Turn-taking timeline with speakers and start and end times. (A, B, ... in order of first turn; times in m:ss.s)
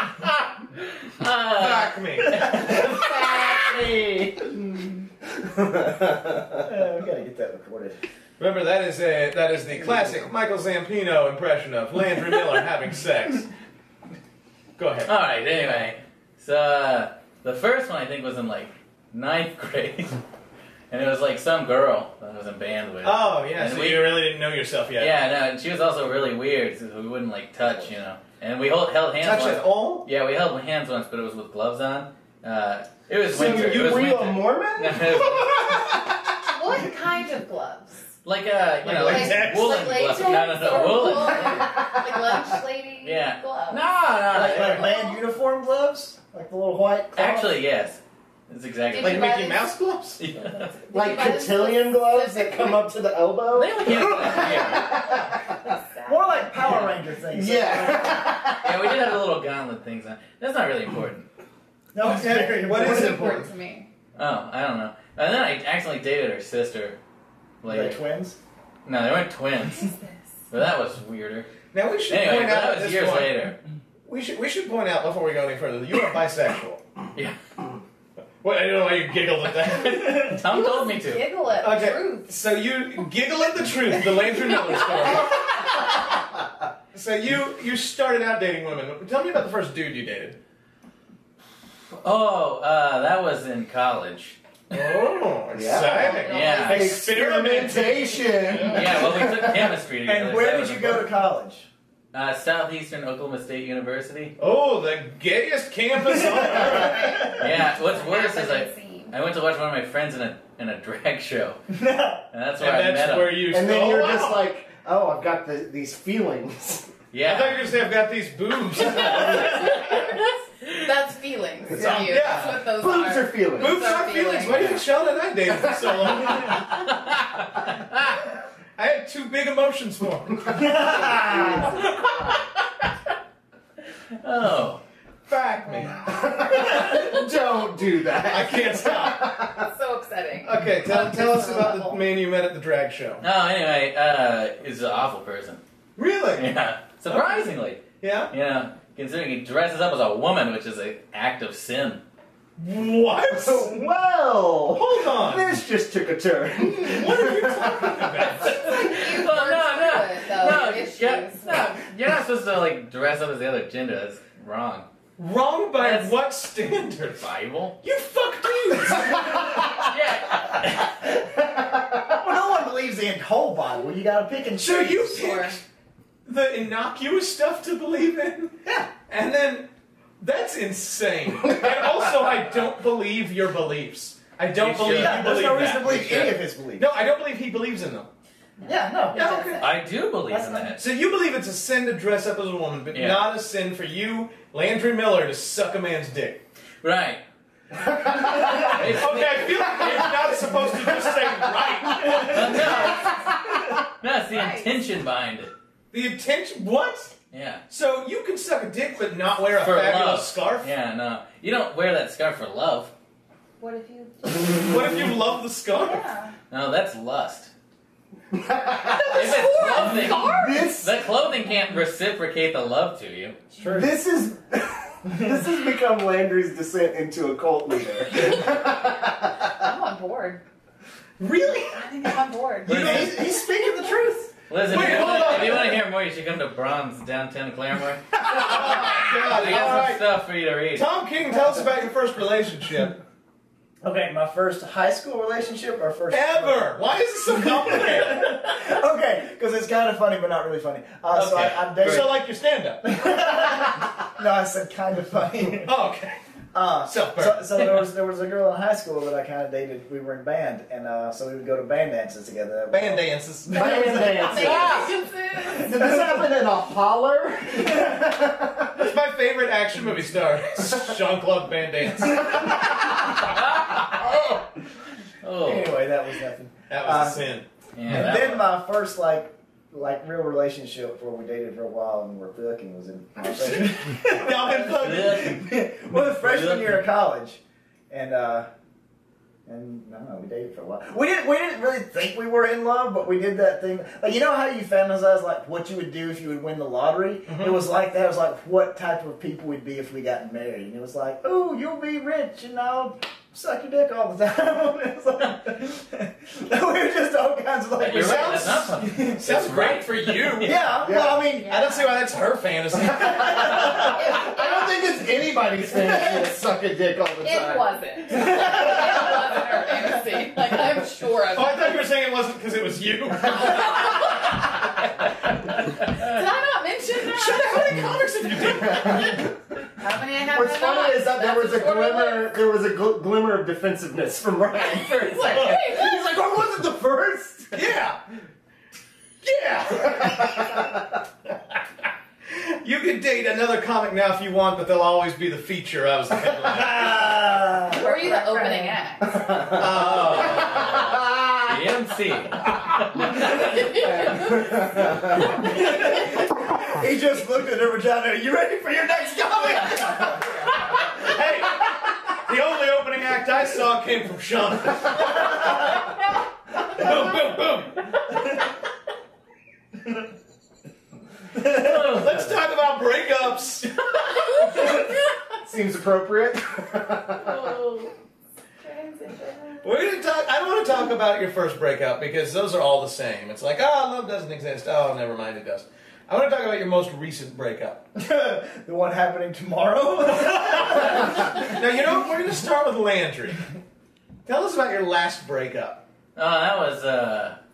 0:01.2-0:02.8 A
0:01.5-0:03.0 B
0:02.5-0:04.5 C
0:05.4-0:06.6 D
0:06.6-0:08.0 C
0:08.4-0:13.5 B
0:14.8-0:15.1 B
0:15.0-0:20.2 A
0:20.9-0:24.2 A
0:23.0-0:25.1 B
0:25.0-0:35.6 A
0:29.2-0:30.1 B
0:33.3-0:35.5 D
0:33.3-0:34.1 B
0:35.4-0:35.9 B
0:36.4-0:38.1 E
0:38.2-0:41.6 A
0:38.8-0:40.4 B
0:38.8-0:43.8 E
0:41.5-0:42.3 D
0:43.0-0:44.8 A
0:44.3-0:47.6 C
0:44.5-0:44.8 B
0:44.6-0:45.2 E
0:47.2-0:49.4 A
0:48.9-0:49.7 E
0:49.0-0:50.2 B
0:50.2-0:50.8 A
0:50.4-0:52.8 E
0:50.9-0:55.4 D
0:53.5-0:55.0 A
0:54.1-0:56.5 E
0:56.0-0:58.4 C
0:56.6-0:56.9 A
0:57.3-0:58.9 D
0:58.6-1:01.3 A
1:01.9-1:03.4 C
1:02.0-1:03.4 B
1:02.6-1:03.9 E
1:04.2-1:07.0 A
1:07.6-1:08.0 A
1:07.6-1:08.4 C
1:08.8-1:09.9 A
1:09.6-1:10.2 E
1:10.5-1:11.5 A
1:11.7-1:13.4 B
1:12.1-1:13.6 A
1:14.0-1:16.8 B
1:18.4-1:20.4 B
1:19.8-1:21.2 A
1:20.3-1:22.3 E
1:21.6-1:26.1 B
1:24.5-1:25.6 E
1:26.9-1:30.4 B
1:32.0-1:34.4 A
1:34.7-1:39.0 B
1:35.5-1:39.7 D
1:35.8-1:36.9 E
1:36.2-1:36.9 A
1:38.7-1:41.0 A
1:40.0-1:41.7 C
1:42.1-1:44.3 A
1:44.4-1:47.2 B
1:46.3-1:47.3 C
1:46.6-1:49.1 E
1:47.4-1:51.6 A
1:51.7-1:52.2 C
1:52.3-1:53.4 A
1:52.6-1:54.4 B
1:53.5-1:56.9 D
1:57.1-1:57.6 A
1:57.2-2:00.0 B
1:58.9-2:04.9 E
2:01.7-2:03.9 D
2:01.8-2:02.6 B
2:03.6-2:06.9 B
2:08.8-2:10.8 B
2:10.5-2:12.1 D
2:10.9-2:11.6 C
2:14.2-2:14.8 A
2:15.3-2:16.0 B
2:16.0-2:19.7 D
2:16.9-2:17.2 E
2:18.3-2:19.3 B
2:19.6-2:22.0 E
2:20.4-2:23.2 B
2:23.2-2:25.6 A
2:26.0-2:26.5 B
2:26.4-2:32.0 A
2:27.1-2:27.5 B
2:28.0-2:28.3 B
2:32.6-2:33.8 B
2:33.3-2:38.3 D
2:34.7-2:35.5 B
2:36.8-2:38.8 B
2:38.2-2:41.7 E
2:38.4-2:44.9 A
2:45.2-2:47.2 B
2:45.8-2:46.1 A
2:47.2-2:47.8 A
2:47.8-2:49.5 B
2:49.8-2:50.9 A
2:51.5-2:52.0 D
2:52.0-2:55.3 C
2:54.6-2:55.6 B
2:55.1-2:55.6 E
2:56.2-2:58.5 B
2:59.1-2:59.7 B
3:00.2-3:08.1 B
3:04.5-3:06.3 A
3:04.8-3:06.7 C
3:05.1-3:06.8 D
3:08.6-3:09.6 C
3:09.1-3:09.7 E
3:09.1-3:09.6 B
3:09.6-3:10.8 A
3:10.3-3:10.8 C
3:10.8-3:16.4 B
3:12.9-3:13.2 A
3:16.8-3:17.2 A
3:18.2-3:18.6 D
3:18.4-3:22.8 B
3:18.6-3:20.0 A
3:22.1-3:23.4 A
3:22.8-3:23.1 E
3:24.0-3:25.5 A
3:24.3-3:24.8 E
3:25.9-3:27.1 B
3:27.3-3:27.6 A
3:27.7-3:30.7 B
3:29.6-3:32.9 A
3:33.6-3:34.7 E
3:34.6-3:36.0 B
3:35.7-3:36.3 E
3:36.5-3:37.5 A
3:38.3-3:41.0 D
3:39.0-3:40.7 E
3:39.1-3:43.4 A
3:43.7-3:49.4 D
3:49.5-3:50.4 E
3:51.2-3:54.1 E
3:51.2-3:51.6 B
3:52.7-3:54.2 C
3:52.7-3:53.1 B
3:54.5-4:00.8 A
3:54.6-3:55.8 B
3:58.3-4:00.1 B
4:00.7-4:03.0 B
4:03.8-4:12.2 C
4:06.1-4:08.4 B
4:11.1-4:11.6 A
4:11.7-4:12.8 B
4:12.8-4:15.7 C
4:15.6-4:16.2 B
4:16.5-4:24.7 C
4:16.8-4:17.5 B
4:22.7-4:24.0 B
4:23.5-4:24.9 D
4:24.2-4:25.8 E
4:25.5-4:28.9 D
4:25.5-4:26.3 C
4:27.6-4:27.8 C
4:28.8-4:32.8 B
4:33.4-4:33.8 A
4:35.2-4:35.8 A
4:35.4-4:37.2 C
4:36.7-4:37.5 B
4:37.8-4:38.5 A
4:37.9-4:48.5 C
4:43.2-4:45.3 B
4:44.7-4:46.8 A
4:49.5-5:09.2 C
4:57.3-4:57.6 B
5:07.8-5:10.6 A
5:07.8-5:10.7 B
5:10.4-5:11.5 C
5:10.8-5:11.2 D
5:11.3-5:12.0 E
5:11.5-5:13.8 B
5:13.0-5:19.4 D
5:13.9-5:14.7 E
5:17.2-5:21.8 E
5:21.3-5:24.5 B
5:23.4-5:24.7 E
5:25.8-5:27.9 E
5:27.0-5:29.2 B
5:28.7-5:29.2 D
5:29.8-5:32.3 E
5:30.3-5:37.7 D
5:34.8-5:36.0 E
5:35.3-5:35.6 B
5:37.5-5:38.0 B
5:39.2-5:40.7 B
5:40.0-5:40.6 D
5:42.3-5:47.0 B
5:46.7-5:48.8 C
5:47.7-5:49.2 E
5:49.3-5:51.4 D
5:49.5-5:50.8 B
5:49.9-5:53.4 A
5:53.3-5:55.4 D
5:53.7-5:54.1 E
5:55.3-6:00.2 C
6:00.7-6:05.8 B
6:06.6-6:07.9 B
6:11.4-6:12.3 A
6:11.9-6:13.8 B
6:15.4-6:17.5 D
6:17.2-6:17.9 A
6:18.6-6:19.8 E
6:19.6-6:27.8 B
6:28.0-6:31.5 C
6:30.4-6:33.4 B
6:34.2-6:35.8 B
6:36.2-6:37.4 A